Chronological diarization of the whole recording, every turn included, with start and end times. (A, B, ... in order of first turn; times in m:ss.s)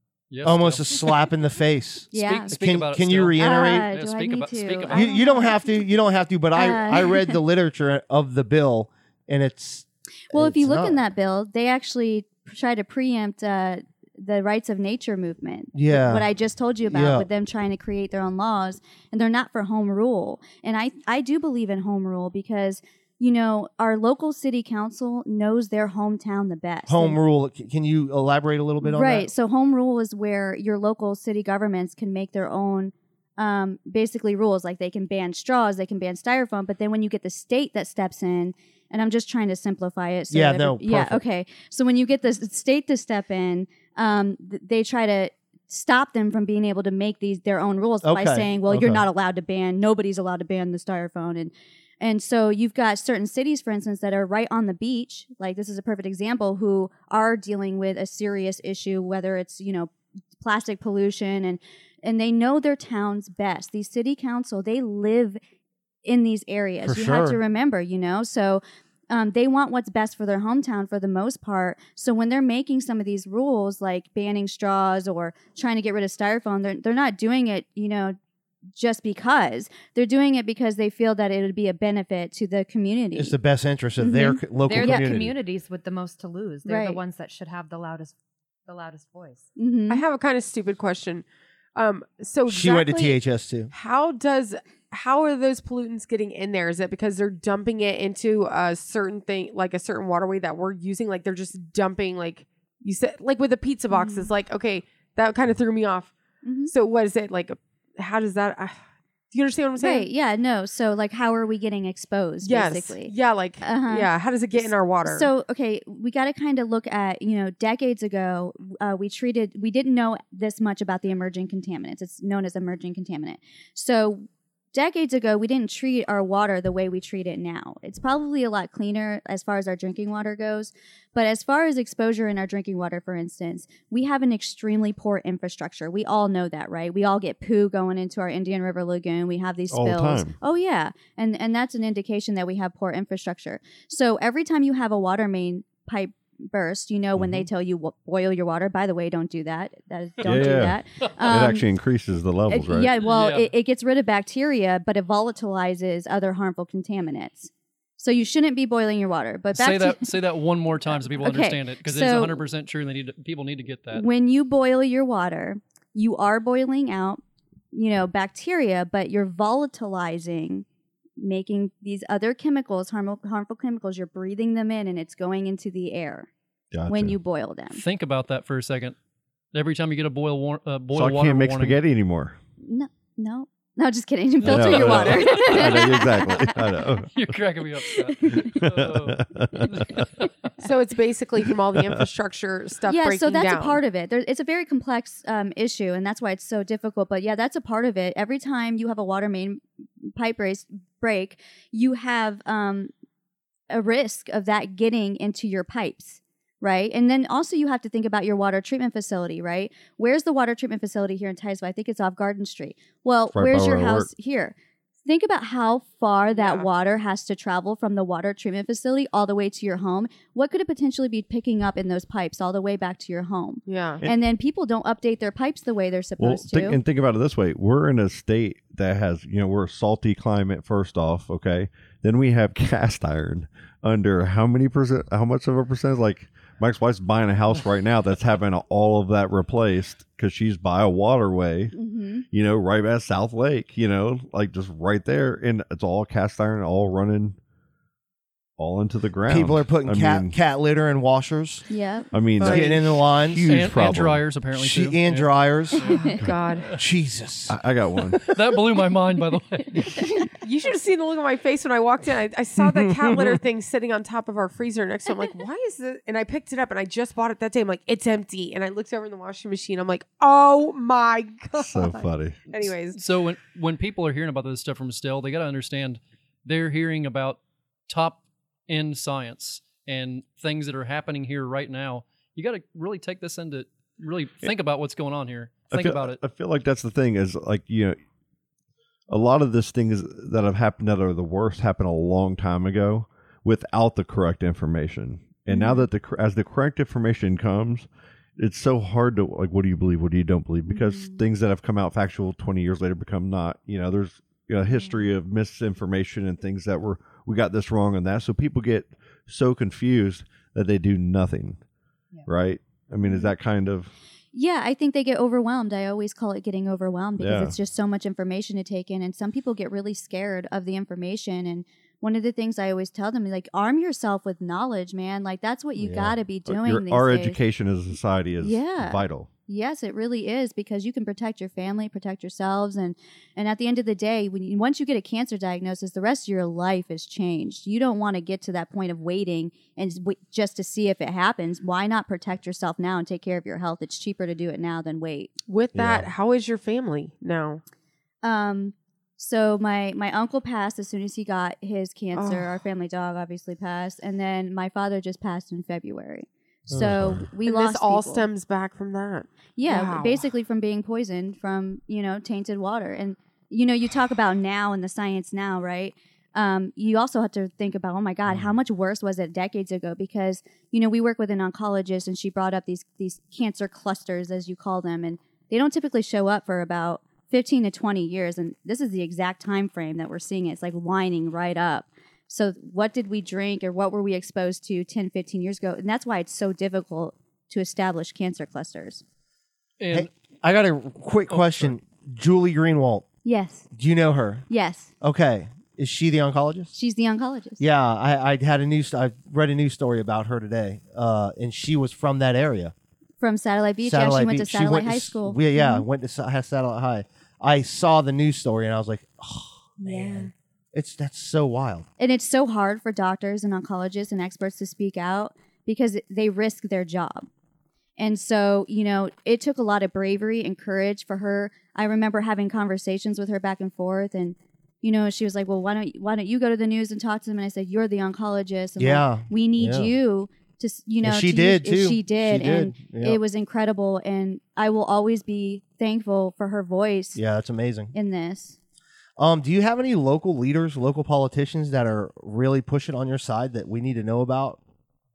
0:00.3-0:01.2 A
0:00.4-0:03.9 B
0:02.1-0:02.6 C
0:02.2-0:05.1 A
0:03.4-0:05.6 C
0:04.9-0:11.0 B
0:06.6-0:07.4 C
0:10.3-0:27.2 C
0:15.7-0:16.3 B
0:16.9-0:17.3 B
0:26.9-0:29.3 B
0:28.8-1:05.4 C
0:40.3-0:41.2 B
0:48.0-0:49.0 B
1:06.0-1:18.2 C
1:06.8-1:07.4 B
1:18.8-1:23.4 C
1:23.2-1:25.3 B
1:24.0-1:25.2 C
1:24.6-1:29.5 D
1:26.6-1:27.0 C
1:29.6-1:30.0 C
1:29.9-1:46.1 E
1:32.5-1:33.7 B
1:43.9-1:44.3 C
1:46.4-1:46.7 C
1:46.7-1:48.8 E
1:49.3-1:50.1 E
1:49.8-2:31.7 C
1:52.4-1:55.3 E
2:19.7-2:20.4 F
2:27.2-2:27.5 F
2:30.2-2:30.6 A
2:30.2-2:32.9 F
2:32.5-2:40.1 C
2:33.0-2:33.5 A
2:39.5-2:44.0 A
2:40.9-2:42.4 C
2:43.9-2:47.2 C
2:47.7-2:50.6 C
2:51.2-2:56.3 C
2:56.7-2:57.2 F
2:56.9-2:57.8 C
2:57.7-2:59.0 A
2:59.5-3:01.8 A
3:00.9-3:02.4 F
3:02.6-3:06.6 C
3:04.4-3:07.1 F
3:04.5-3:06.0 A
3:07.1-3:10.3 A
3:07.9-3:08.6 C
3:08.3-3:10.1 F
3:10.6-3:13.8 E
3:11.7-3:12.0 F
3:12.9-3:19.6 C
3:20.2-3:22.9 C
3:23.7-3:46.8 C
3:33.3-3:34.1 F
3:36.3-3:36.7 E
3:43.7-3:44.0 E
3:46.2-4:01.8 F
4:01.7-4:02.2 C
4:02.3-4:07.4 F
4:08.6-4:10.3 F
4:09.3-4:11.6 B
4:11.7-4:12.1 C
4:12.1-4:14.2 F
4:12.4-4:12.8 E
4:12.4-4:13.5 B
4:13.5-4:16.8 A
4:14.5-4:15.8 B
4:15.8-4:16.7 E
4:15.9-4:16.2 C
4:16.8-4:17.6 B
4:17.5-4:18.2 F
4:18.3-4:20.0 A
4:20.4-4:33.0 E
4:22.6-4:23.4 B
4:31.6-4:32.4 F
4:32.9-4:46.2 A
4:45.7-4:48.0 F
4:49.1-5:11.6 F
4:55.5-4:55.9 C
5:00.7-5:01.2 C
5:12.3-5:13.9 F
5:13.0-5:13.3 C
5:14.3-5:27.4 C
5:17.2-5:17.6 F
5:25.9-5:29.3 F
5:28.4-5:45.3 C
5:45.5-5:47.6 E
5:45.8-5:46.0 B
5:48.2-5:58.3 C
5:52.2-5:52.5 E
5:56.7-5:57.2 B
5:56.9-5:57.2 F
5:57.4-6:00.2 E
5:59.6-6:29.0 C
6:29.8-6:30.1 A
6:29.9-6:33.1 B
6:31.3-6:31.7 A
6:33.2-6:33.7 C
6:33.7-6:34.4 B
6:34.5-6:34.9 C
6:35.0-6:36.7 B
6:36.7-6:37.6 C
6:37.6-6:42.7 B
6:43.2-6:45.9 C
6:43.8-6:51.9 B
6:49.8-6:50.3 C
6:52.0-6:57.3 C
6:58.0-7:17.2 C
7:08.8-7:09.9 B
7:11.0-7:13.2 B
7:17.2-7:17.9 B
7:17.9-7:18.6 C
7:19.2-7:24.6 B